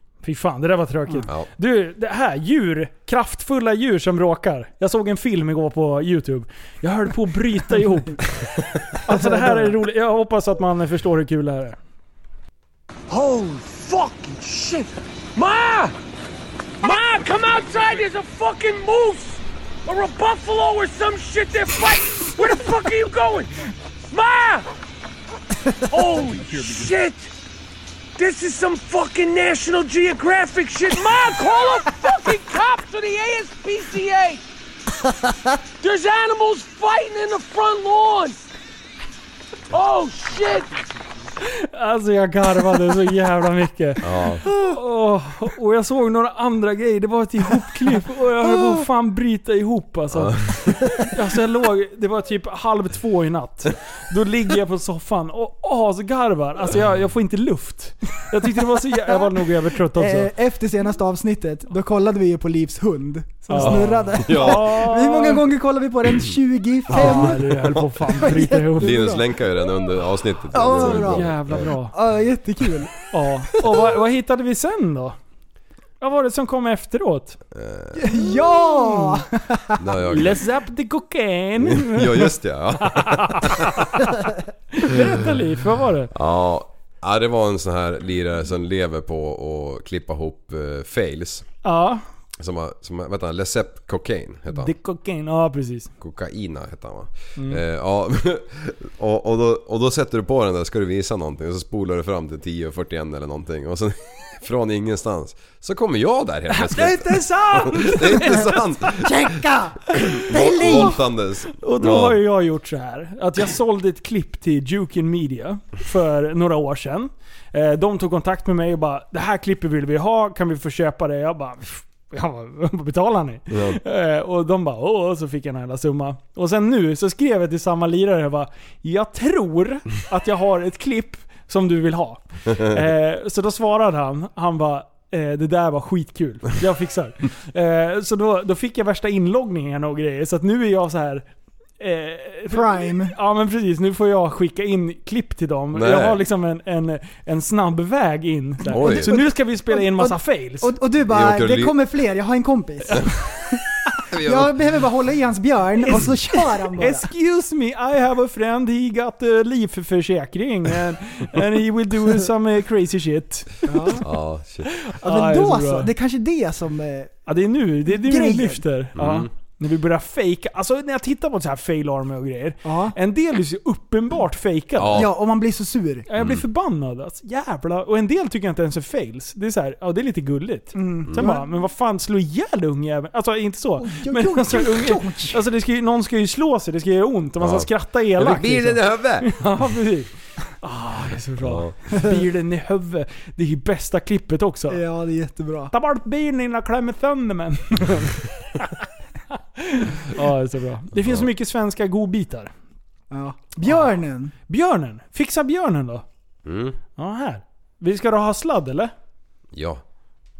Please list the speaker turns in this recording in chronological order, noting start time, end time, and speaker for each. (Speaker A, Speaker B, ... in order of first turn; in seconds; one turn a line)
Speaker A: 0.2-8.2
Speaker A: 9.0-11.8
Speaker B: 9.1-9.7
Speaker C: 13.1-15.9
Speaker C: 16.8-23.5
Speaker C: 24.1-24.6
Speaker C: 25.9-27.3
Speaker C: 28.2-34.4
Speaker C: 35.8-38.4
Speaker C: 39.7-40.7
Speaker A: 41.4-60.3
Speaker D: 44.0-44.5
Speaker D: 50.1-50.8
Speaker B: 59.9-69.2
Speaker A: 63.5-65.4
Speaker D: 63.5-64.9
Speaker A: 66.9-69.1
Speaker D: 66.9-71.7
Speaker B: 70.5-73.0
Speaker A: 70.8-71.9
Speaker A: 73.1-75.2
Speaker A: 76.0-77.4
Speaker D: 77.5-78.0
Speaker B: 78.0-79.8
Speaker A: 78.8-79.2
Speaker D: 79.8-80.4
Speaker A: 80.1-84.2
Speaker D: 81.6-83.9
Speaker A: 84.7-86.1
Speaker D: 86.1-91.5
Speaker A: 91.6-92.0
Speaker D: 92.4-94.7
Speaker A: 94.5-95.9
Speaker D: 96.0-112.2
Speaker A: 97.4-97.6
Speaker A: 106.5-109.0
Speaker B: 109.0-111.0
Speaker A: 110.0-110.9
Speaker A: 111.5-141.3
Speaker D: 123.5-123.8
Speaker A: 141.8-150.7
Speaker B: 142.5-143.1
Speaker D: 145.7-146.2
Speaker B: 148.7-153.6
Speaker D: 148.7-149.2
Speaker D: 151.1-151.8
Speaker D: 154.1-154.6
Speaker B: 154.1-157.1
Speaker A: 155.8-164.0
Speaker B: 163.7-164.1
Speaker D: 164.0-164.7
Speaker A: 164.8-165.9
Speaker B: 165.0-167.2
Speaker A: 167.2-175.1
Speaker B: 167.9-168.6
Speaker D: 168.9-169.3
Speaker B: 172.6-172.9
Speaker D: 174.8-175.1
Speaker B: 174.9-176.1
Speaker A: 176.1-190.1
Speaker D: 176.2-176.4
Speaker B: 180.7-181.5
Speaker B: 183.8-185.4
Speaker D: 187.4-189.4
Speaker A: 190.6-194.8
Speaker D: 191.4-191.7
Speaker B: 194.7-195.7
Speaker A: 195.7-198.3
Speaker A: 199.3-202.5
Speaker D: 201.0-201.3
Speaker B: 203.1-204.3
Speaker A: 204.5-206.0
Speaker D: 206.4-206.8
Speaker A: 207.0-208.9
Speaker D: 209.5-209.8